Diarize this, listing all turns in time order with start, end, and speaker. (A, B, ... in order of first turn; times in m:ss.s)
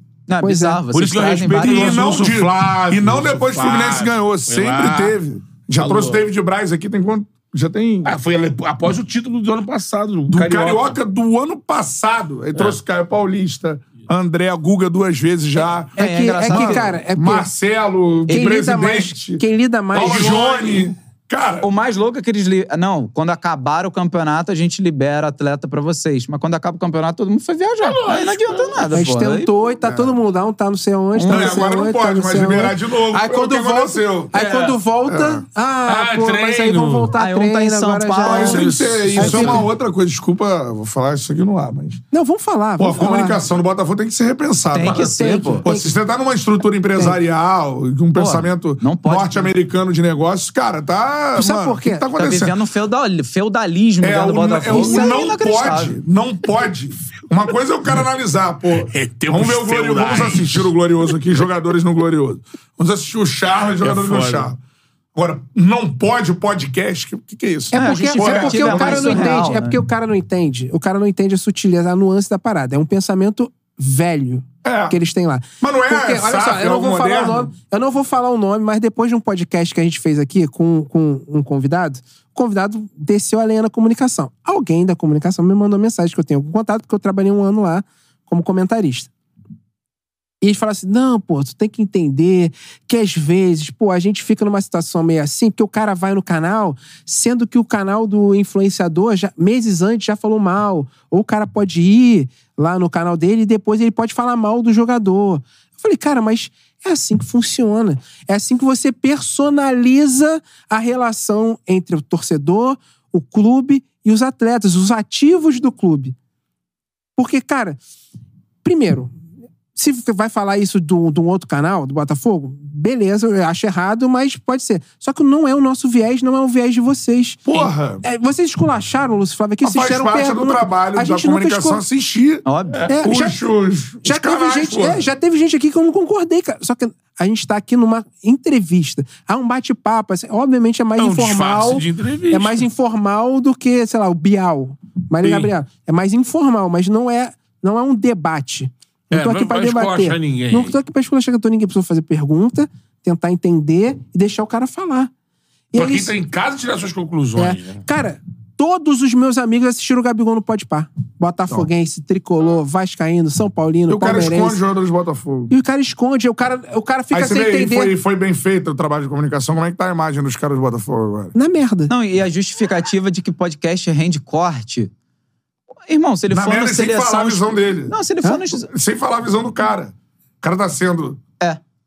0:00.3-0:02.1 A
0:00.4-0:00.8 B
0:00.9-0:05.2 C
0:01.6-0:08.1 D
0:05.8-0:06.2 C
0:08.0-0:11.0 C
0:10.3-0:19.4 D
0:16.0-0:16.9 A
0:16.0-0:17.5 B
0:18.3-0:20.3 B
0:18.3-0:18.6 A
0:19.9-0:21.7 D
0:19.9-0:20.9 C
0:21.6-0:29.5 A
0:27.8-0:28.9 C
0:28.9-0:39.7 B
0:29.8-0:30.2 D
0:31.1-0:31.7 A
0:31.3-0:34.4 D
0:34.3-0:34.8 C
0:35.0-0:35.4 D
0:35.9-0:37.1 C
0:37.2-0:38.7 A
0:38.2-0:42.0 D
0:38.4-0:39.6 C
0:42.1-0:43.4 B
0:42.8-0:52.6 D
0:44.7-0:45.7 A
0:44.9-0:45.9 B
0:48.2-0:49.5 A
0:51.4-0:52.0 B
0:52.2-0:56.0 A
0:54.0-1:04.6 D
0:54.7-0:55.2 B
0:58.9-1:00.7 C
1:03.8-1:04.5 C
1:05.2-1:09.5 D
1:07.7-1:09.8 A
1:07.7-1:29.1 B
1:14.6-1:15.0 D
1:15.6-1:17.5 D
1:30.4-1:56.2 B
1:57.2-1:57.8 B
1:58.6-1:59.2 B
1:59.8-2:11.8 B
2:07.5-2:08.0 D
2:09.6-2:12.4 D
2:12.4-2:12.9 A
2:12.9-2:13.4 B
2:13.0-2:15.1 D
2:14.0-2:35.1 B
2:21.0-2:22.6 C
2:25.2-2:25.5 C
2:29.1-2:30.8 C
2:35.7-2:36.1 B
2:35.8-2:37.8 C
2:37.4-2:44.6 B
2:43.9-2:45.5 D
2:45.5-2:47.9 B
2:47.1-2:51.3 D
2:51.4-2:51.9 B
2:51.9-2:54.9 A
2:55.9-2:58.7 A
2:56.3-2:58.0 D
2:58.5-3:01.2 D